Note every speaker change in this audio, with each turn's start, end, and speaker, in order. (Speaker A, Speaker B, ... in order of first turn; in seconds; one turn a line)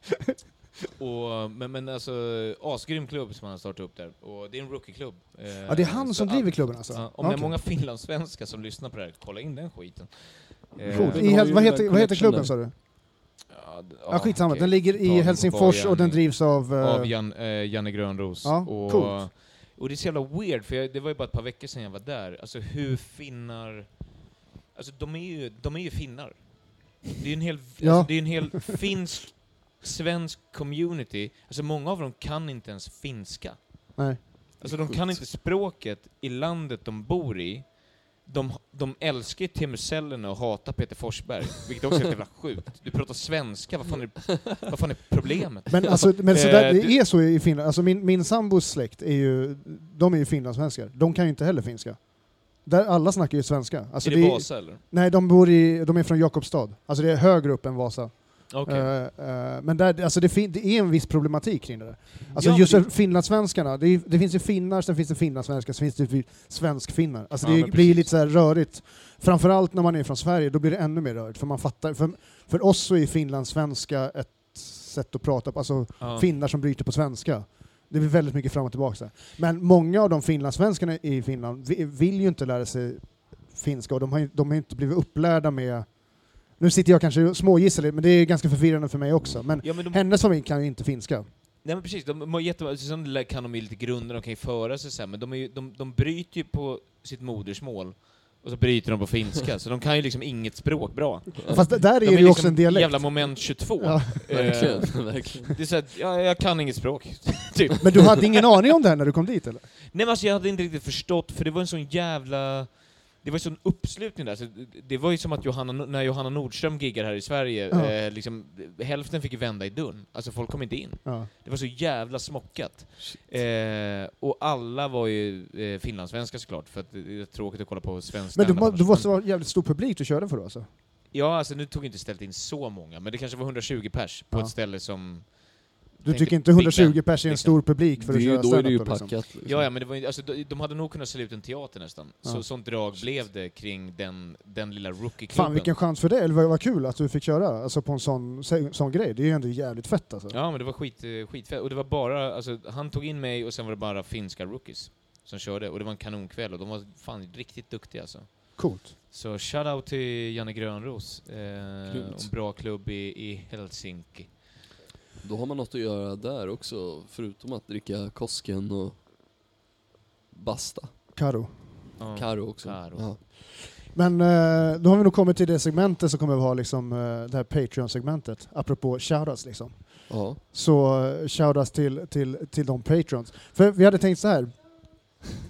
Speaker A: 1.0-11.3
Speaker B: 5.7-7.5
Speaker C: 10.8-12.6
Speaker B: 10.9-12.7
Speaker A: 13.5-24.1
Speaker B: 14.1-17.1
Speaker B: 18.4-19.2
Speaker A: 24.7-34.0
Speaker B: 27.8-28.7
Speaker B: 34.0-34.2
Speaker A: 34.6-47.0
Speaker C: 34.6-35.2
Speaker B: 45.7-91.3
Speaker A: 54.0-54.8
Speaker A: 58.5-58.9
Speaker A: 62.3-62.9
Speaker A: 67.4-68.1
Speaker A: 76.0-76.3
Speaker A: 89.6-90.0
Speaker A: 91.6-108.4
Speaker C: 101.4-101.7
Speaker B: 101.5-105.1
Speaker C: 104.3-105.5
Speaker B: 107.8-109.7
Speaker A: 109.9-129.1
Speaker B: 121.0-121.3
Speaker B: 128.3-130.7
Speaker A: 131.1-137.6
Speaker B: 136.0-139.1
Speaker C: 138.0-139.7
Speaker A: 139.4-145.7
Speaker B: 145.3-150.3
Speaker A: 150.3-164.4
Speaker B: 158.6-158.9
Speaker C: 161.9-162.3
Speaker C: 165.2-169.0
Speaker C: 170.3-170.9
Speaker B: 171.1-171.8
Speaker A: 172.0-173.1
Speaker C: 172.1-173.2
Speaker B: 173.9-185.2
Speaker C: 180.1-180.4